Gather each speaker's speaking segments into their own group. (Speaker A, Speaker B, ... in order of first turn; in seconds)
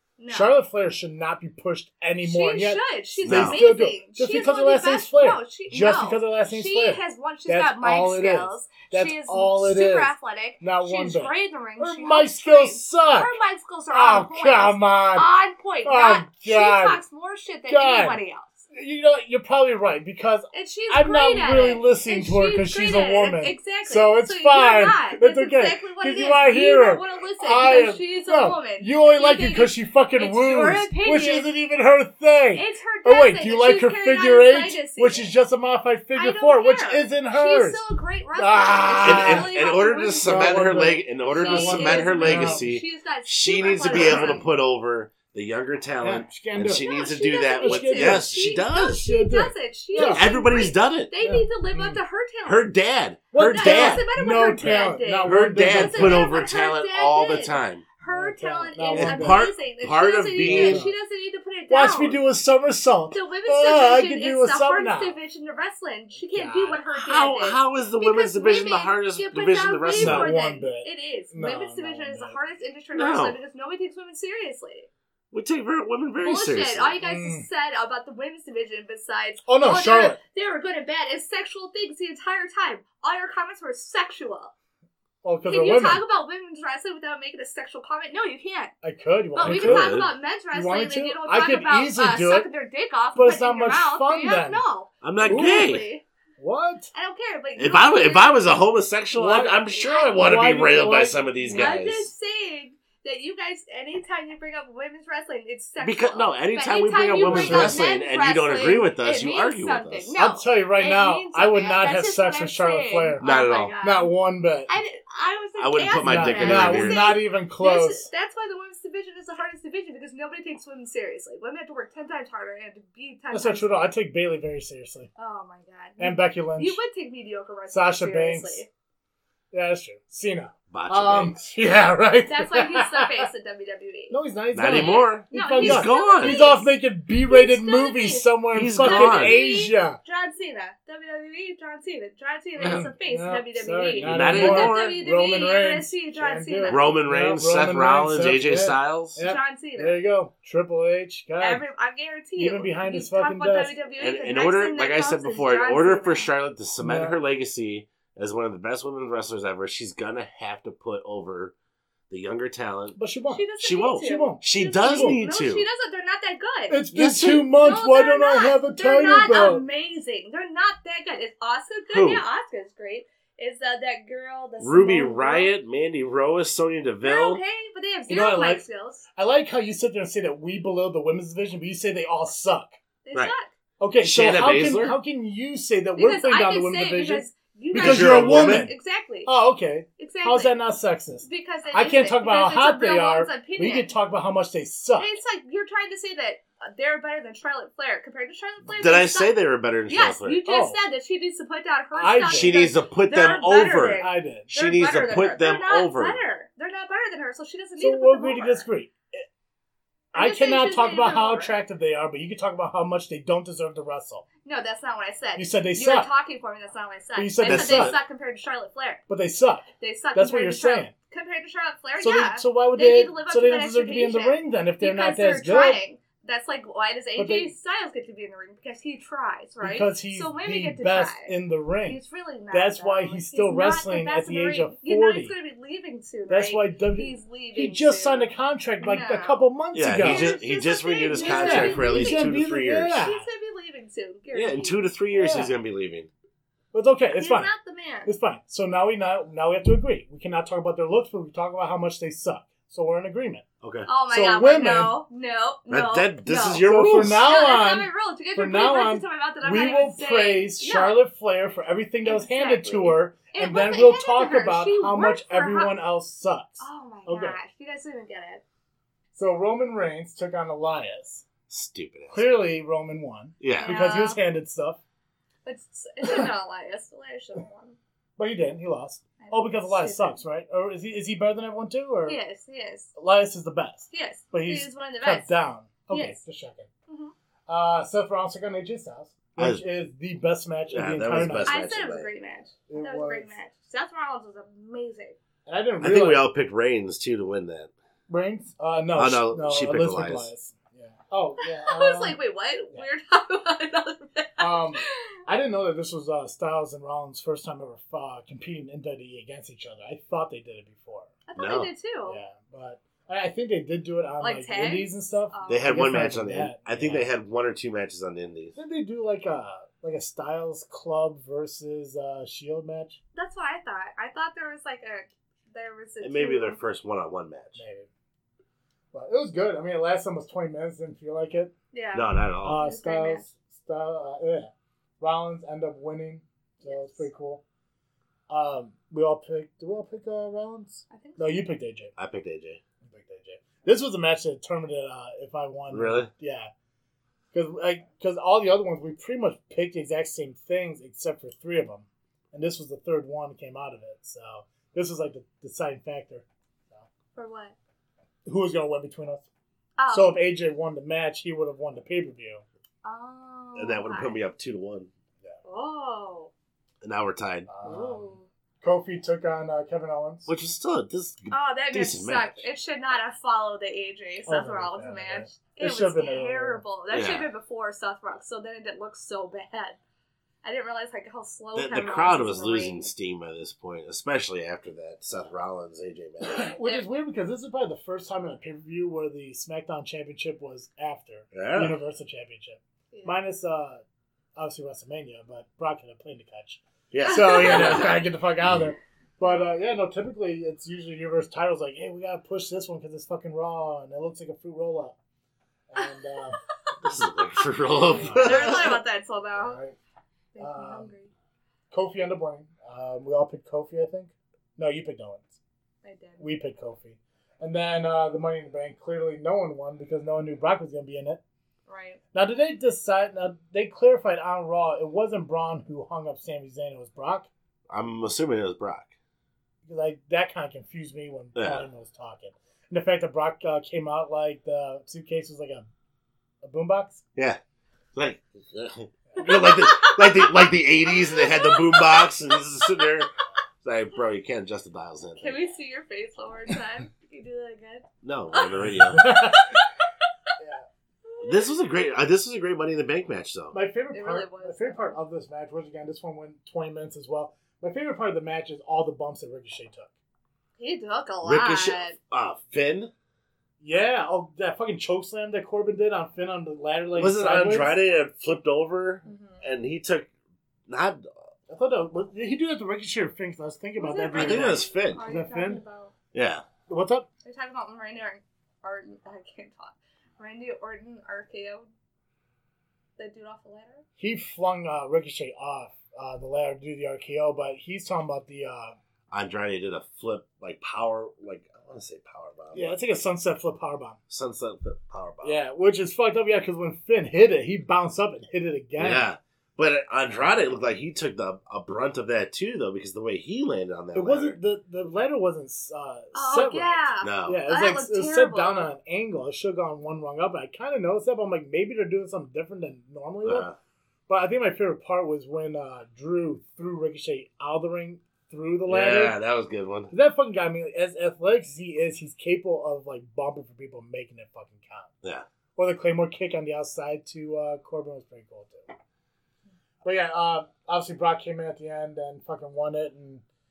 Speaker A: 0.2-0.5, 2.2-18.6, 20.5-31.5, 32.5-35.3, 36.1-44.5, 46.8-52.7, 53.4-62.2, 63.1-74.9, 76.2-84.5, 85.5-88.7, 89.3-96.0, 96.9-98.6, 99.7-100.1, 101.5-114.1, 114.7-123.9, 125.2-128.7, 132.3-146.9, 149.2-150.0, 151.4-156.3, 163.3-166.8, 167.5-175.5, 177.0-179.1, 183.0-183.5, 186.0-189.3, 190.0-190.5, 191.2-193.9, 195.0-199.3, 199.9-208.7, 210.1-211.5, 214.4-219.0, 219.8-231.3, 231.8-238.3, 238.8-239.4, 240.0-242.3, 243.0-244.9, 247.1-248.1, 253.9-261.0, 262.0-265.8, 266.6-268.4, 273.6-274.2, 275.4-277.8, 279.2-280.2, 282.1-282.9, 283.9-285.3, 285.9-286.2, 286.9-287.1, 291.4-295.2, 301.4-305.1, 311.3-312.2, 314.2-315.8, 323.1-326.6, 331.7-333.3, 336.6-337.1, 340.9-341.5, 357.1-357.5, 359.8-360.2, 362.8-364.2, 365.4-366.3, 367.6-368.3, 371.3-379.8, 380.4-382.9, 386.5-386.8, 392.9-393.2, 397.1-397.9, 407.8-409.6, 410.3-411.1, 415.8-416.3, 421.7-422.0, 439.2-442.9, 445.2-448.5, 449.2-449.6, 451.1-451.4, 453.9-455.0, 460.6-461.9, 469.0-469.4, 473.8-475.9, 477.2-481.7, 483.0-483.8, 506.1-508.7
Speaker B: 0.3-13.3, 13.9-15.3, 15.8-17.0, 17.7-18.2, 18.7-37.8, 38.4-39.5, 40.2-42.7, 43.9-44.4, 46.0-46.9, 47.6-48.3, 48.9-50.3, 51.2-52.0, 53.3-56.3, 58.0-59.4, 60.4-60.9, 61.7-65.1, 66.3-66.8, 70.0-72.4, 77.0-77.5, 79.5-80.2, 85.2-86.0, 88.8-92.5, 93.1-94.6, 95.3-95.7, 96.4-96.9, 99.1-101.7, 107.2-107.9, 110.2-113.2, 113.8-114.7, 116.0-118.1, 123.3-125.1, 126.0-126.8, 127.7-128.6, 129.5-133.3, 134.1-140.0, 142.6-151.6, 152.4-153.8, 156.8-157.2, 162.9-165.2, 166.7-169.6, 178.1-178.6, 179.2-182.8, 183.8-188.7, 189.2-195.2, 200.4-200.8, 201.9-202.6, 204.0-204.5, 207.8-209.2, 210.1-214.2, 215.3-216.1, 217.2-218.0, 219.1-220.9, 222.0-225.8, 227.2-227.5, 229.6-235.3, 236.3-240.4, 241.1-243.3, 245.1-245.5, 246.7-247.5, 248.1-253.4, 254.1-255.0, 256.5-267.4, 269.1-271.2, 272.1-274.8, 278.2-282.2, 282.9-286.7, 287.5-291.6, 292.7-293.3, 295.4-296.2, 298.1-302.2, 304.4-311.1, 312.0-317.1, 318.6-323.0, 327.6-327.9, 328.9-331.5, 332.4-337.4, 338.3-341.9, 342.9-346.5, 347.3-356.9, 358.2-359.2, 359.9-362.4, 367.5-370.3, 374.3-376.6, 386.2-393.8, 394.4-405.0, 405.7-406.4, 407.9-408.7, 409.4-409.8, 410.4-410.9, 411.7-415.4, 416.2-421.2, 422.1-427.3, 429.6-435.7, 436.4-437.0, 448.9-449.5, 450.4-450.6, 453.5-459.9, 463.6-467.8, 471.5-475.6, 476.7-477.1, 484.0-488.8, 492.5-494.0, 495.2-499.1, 503.9-513.5, 514.1-519.2, 519.9-524.9, 525.5-528.7, 529.8-533.2
Speaker C: 3.2-3.6, 39.0-49.0, 49.9-51.1, 52.4-54.0, 55.2-57.8, 58.9-60.8, 66.9-70.3, 72.9-73.4, 75.3-77.0, 89.4-90.1, 95.0-95.9, 97.6-102.1, 105.8-110.1, 113.2-113.7, 115.6-117.2, 130.7-131.4, 134.5-136.5, 138.5-139.3, 142.6-142.9, 144.0-145.0, 146.7-149.2, 154.0-161.5, 162.1-163.0, 163.6-165.6, 166.9-167.5, 171.9-172.2, 174.6-177.4, 184.0-184.9, 187.7-188.7, 198.8-200.4, 202.3-206.2, 217.4-218.0, 239.7-243.0, 244.3-246.1, 253.6-253.9, 255.7-257.2, 271.5-272.3, 273.4-273.7, 289.4-289.6, 290.7-292.1, 295.8-297.7, 298.9-300.3, 311.4-311.7, 315.5-318.5, 326.0-327.6, 331.9-332.6, 342.0-342.6, 345.7-346.1, 363.6-364.9, 366.8-367.5, 370.3-372.4, 376.9-377.3, 381.5-386.5, 391.3-391.8, 396.9-397.9, 406.8-408.8, 427.7-428.9, 431.4-431.6, 437.1-437.4, 437.9-443.1, 443.6-445.4, 448.0-449.1, 451.2-453.5, 461.2-462.9, 466.9-470.1, 470.7-471.1, 474.1-475.0, 476.1-476.4, 489.1-492.8, 494.1-495.4, 498.8-504.4, 507.0-507.4, 513.2-513.5, 518.7-519.9